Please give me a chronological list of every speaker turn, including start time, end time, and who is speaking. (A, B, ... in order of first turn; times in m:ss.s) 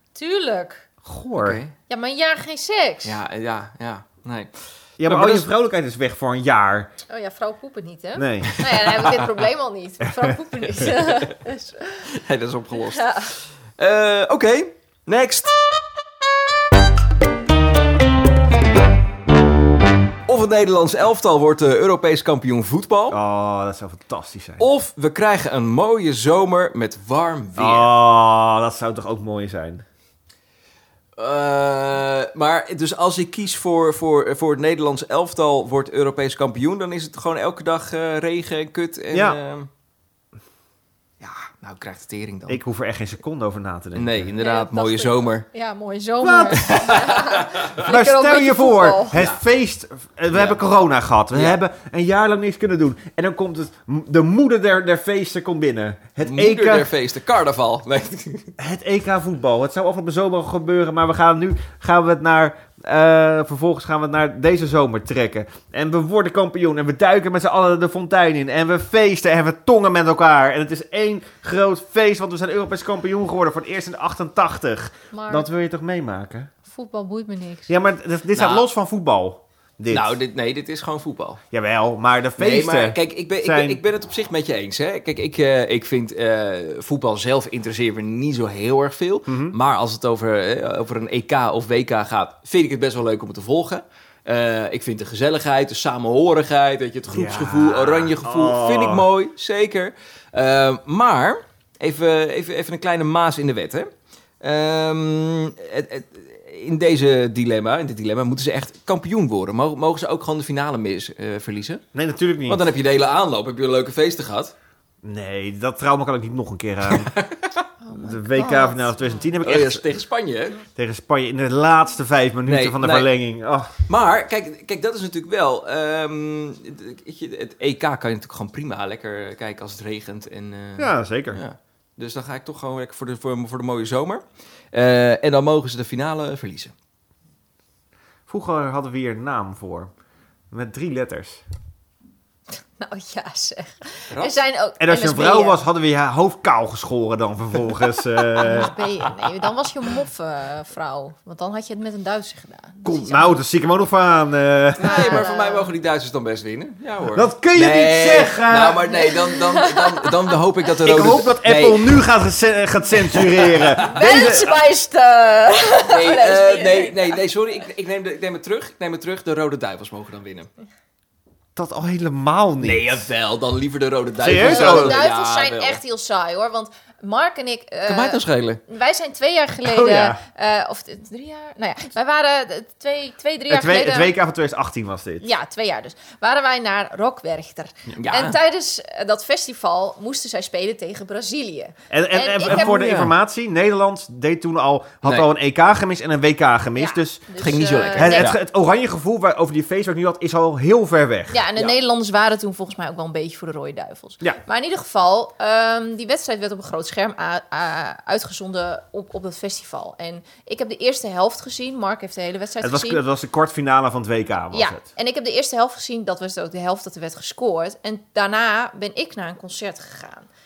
0:00.1-0:00.8 A
0:01.0-0:01.6 B
0:01.3-0:01.7 C
0:01.9-0:03.2 A
0:03.0-0:04.5 C
0:05.0-0:06.9 B
0:05.0-0:05.5 C
0:07.1-0:12.1 A
0:08.2-0:08.6 B
0:08.5-0:09.3 C
0:10.7-0:11.4 C
0:12.0-0:15.6 C
0:12.8-0:13.3 A
0:20.2-0:23.2 C
0:23.1-0:24.6 B
0:24.6-0:27.9 C
0:27.6-0:29.8 B
0:31.2-0:39.7 C
0:39.1-0:39.4 B
0:41.2-0:42.6 C
0:42.5-0:44.3 B
0:43.9-0:45.4 C
0:44.4-0:49.2 A
0:46.2-0:47.0 B
0:46.5-0:47.8 C
0:47.8-0:56.9 B
0:49.1-0:49.4 C
0:50.3-0:50.6 C
0:51.3-0:51.6 C
0:56.2-0:58.5 C
0:58.6-1:16.5 B
1:15.1-1:15.5 A
1:16.6-1:17.7 A
1:17.7-1:20.2 B
1:18.3-1:18.7 C
1:19.9-1:21.4 C
1:21.5-1:23.8 B
1:22.4-1:43.9 C
1:29.3-1:29.6 B
1:37.1-1:39.1 B
1:44.4-1:51.8 C
1:51.9-1:52.7 B
1:52.5-1:54.5 C
1:55.0-1:57.1 B
1:56.9-1:57.6 C
1:57.8-1:59.2 A
1:57.9-1:59.8 B
1:59.4-2:00.6 C
2:00.7-2:03.7 B
2:02.5-2:03.1 C
2:03.9-2:16.7 C
2:10.8-2:11.4 B
2:18.3-2:19.9 B
2:20.5-2:21.4 B
2:22.8-2:25.6 A
2:24.1-2:24.4 C
2:24.8-2:28.7 B
2:28.4-2:33.4 A
2:32.8-2:35.2 B
2:34.8-2:42.0 C
2:34.8-2:35.7 A
2:37.1-2:38.9 B
2:38.9-2:40.4 A
2:40.8-2:44.5 B
2:43.1-2:44.4 C
2:43.8-2:47.2 A
2:45.9-2:50.5 C
2:51.6-2:53.0 B
2:52.6-2:55.8 C
2:54.2-2:55.0 B
2:54.3-3:04.1 A
2:57.8-2:58.6 C
2:59.6-3:00.2 B
3:03.5-3:05.3 B
3:05.2-3:12.9 A
3:07.9-3:08.4 C
3:11.9-3:17.3 B
3:12.4-3:13.1 C
3:16.8-3:18.3 A
3:17.4-3:18.4 C
3:18.0-3:21.4 B
3:21.3-3:33.0 A
3:32.6-3:34.8 B
3:34.5-3:40.3 A